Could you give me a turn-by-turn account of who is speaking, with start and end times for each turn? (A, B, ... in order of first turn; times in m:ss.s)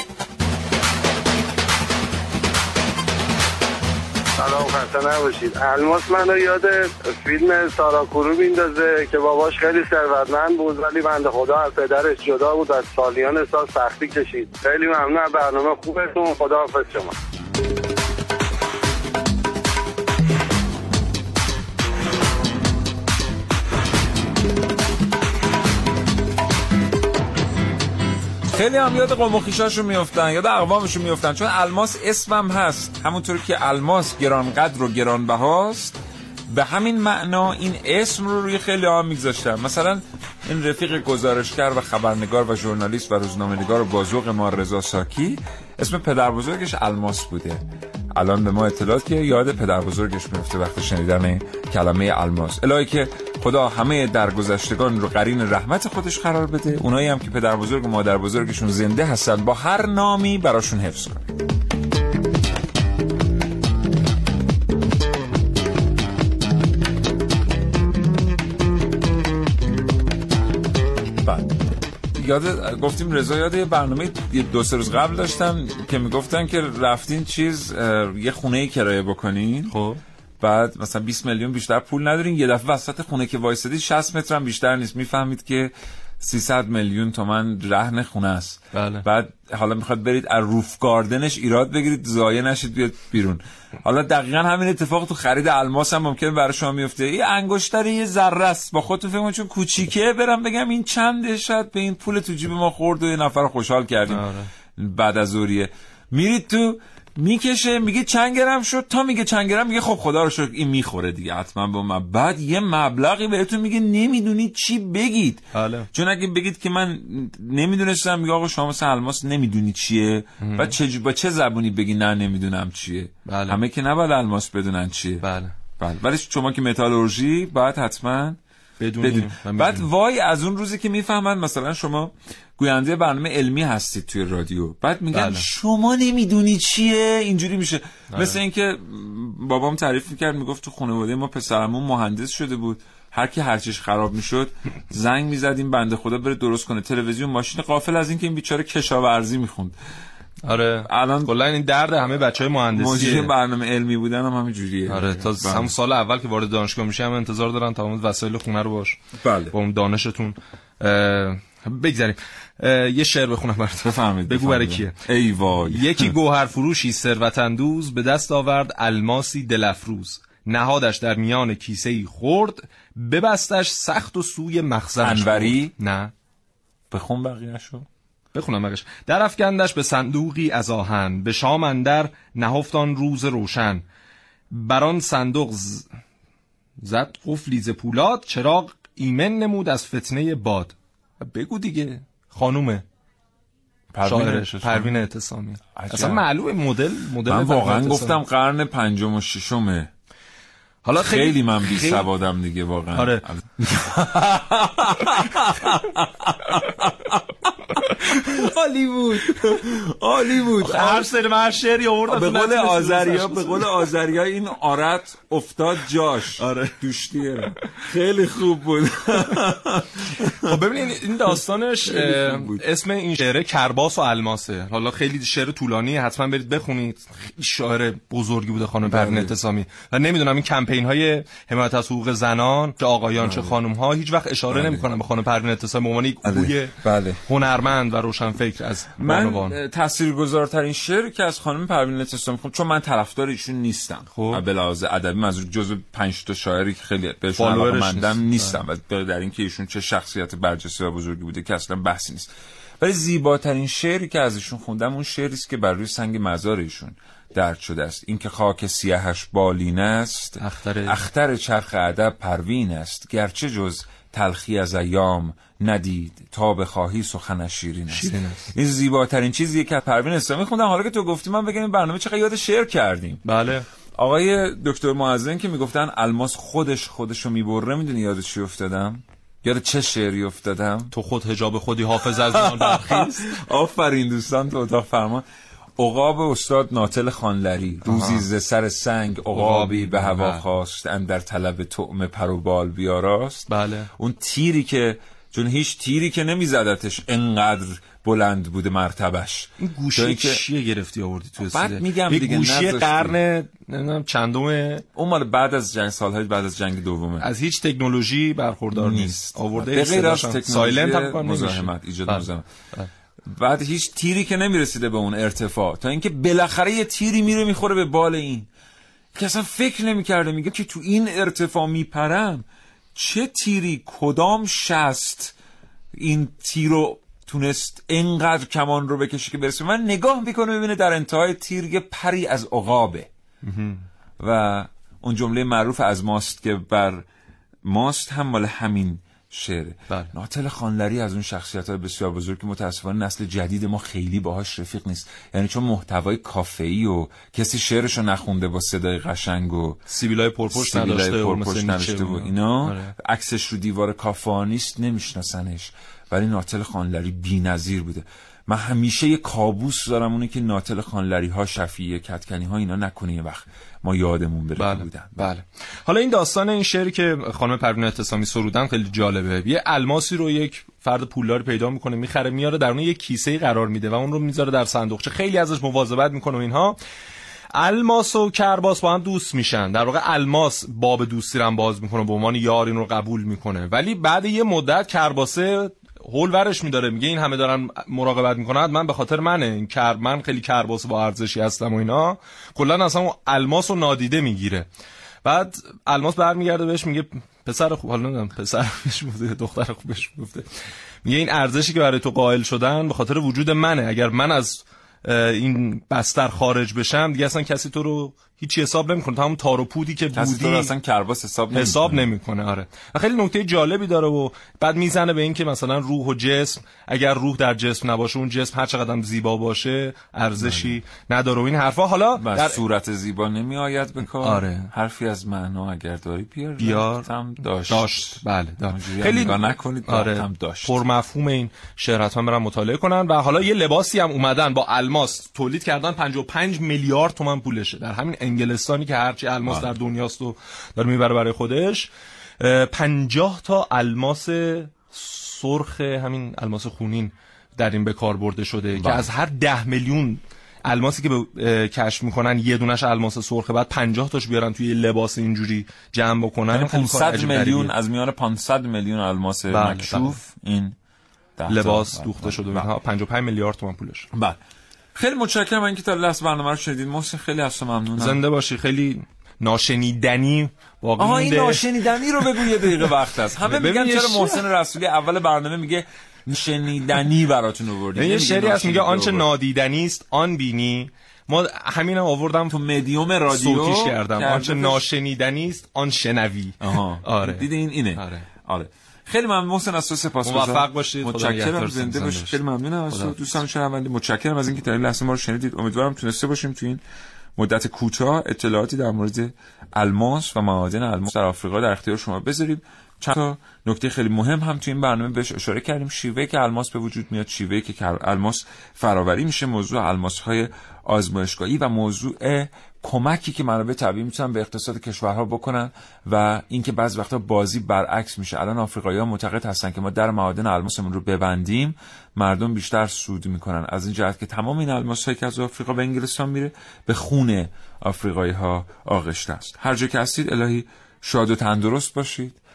0:04.4-0:17.1 A
0:28.5-0:36.0 B
0:36.5-0:47.6 B
0:48.1-1:01.3 B
1:11.2-1:11.5 B
1:12.1-1:19.7 B
1:19.7-1:20.0 C
1:20.4-1:44.3 B
1:28.7-1:29.0 C
1:44.1-1:44.5 C
1:44.8-2:05.2 B
1:55.5-1:55.9 C
2:00.4-2:00.7 C
2:03.3-2:03.6 C
2:05.2-2:05.5 C
2:05.8-2:08.4 B
2:08.8-2:09.9 C
2:09.0-2:29.7 B
2:15.1-2:15.4 C
2:18.1-2:18.4 C
2:30.5-2:33.3 C
2:30.9-2:31.3 B
2:32.7-2:35.7 B
2:34.9-2:39.0 C
2:39.2-2:39.5 B
2:39.5-2:45.0 C
2:43.8-2:46.2 B
2:45.6-2:56.1 C
2:55.0-2:55.7 B
2:56.9-2:57.8 B
2:58.3-3:03.8 C
3:04.5-3:05.9 C
3:06.8-3:12.8 C
3:13.9-3:15.0 B
3:14.0-3:18.2 C
3:15.7-3:16.2 B
3:17.3-3:19.9 B
3:20.8-3:22.1 C
3:21.0-3:31.1 B
3:22.9-3:23.2 C
3:30.6-3:33.7 C
3:32.1-3:40.5 B
3:36.4-3:36.7 C
3:40.5-3:56.7 C
3:41.8-3:42.6 B
3:48.8-3:49.3 B
3:53.2-3:53.5 B
3:54.5-3:54.8 B
3:56.2-3:57.2 B
3:57.3-3:59.6 C
3:59.0-4:33.2 B
4:04.1-4:04.4 C
4:07.4-4:08.6 C
4:20.4-4:21.0 C
4:27.9-4:28.5 C
4:33.2-4:33.6 C
4:34.0-4:40.9 B
4:40.9-4:43.3 C
4:42.0-4:45.2 B
4:45.8-5:00.4 B
4:47.8-4:48.2 C
4:49.3-4:50.4 C
4:53.5-4:53.9 C
4:59.6-5:04.8 C
5:01.5-5:03.2 B
5:05.0-5:07.2 B
5:07.2-5:12.9 C
5:08.7-5:12.4 B
5:13.3-5:18.5 B
5:19.1-5:22.4 B
5:22.9-5:25.3 B
5:26.0-5:33.1 B
5:33.4-5:33.8 C
5:34.2-5:37.0 B
5:37.6-5:49.8 B
5:49.9-5:52.9 C
5:50.5-6:05.3 B
6:04.6-6:16.8 C
6:17.5-6:34.7 C
6:35.2-6:40.5 C
6:41.0-6:50.7 C
6:50.1-6:52.1 B
6:51.5-7:02.6 C
7:00.4-7:00.8 B
7:02.2-7:10.8 B
7:04.2-7:04.7 C
7:06.6-7:07.1 C
7:07.7-7:37.7 C
7:28.8-7:29.0 B
7:36.5-7:40.7 B
7:39.5-7:40.2 C
7:41.4-7:42.7 B
7:41.5-7:44.1 C
7:44.9-7:48.2 B
7:48.0-7:51.6 C
7:51.0-7:59.3 B
7:53.4-7:54.4 C
7:58.0-8:02.6 C
8:02.6-8:04.8 B
8:03.3-8:08.2 C
8:06.6-8:16.8 B
8:10.2-8:12.4 C
8:12.9-8:13.2 C
8:17.4-8:52.4 B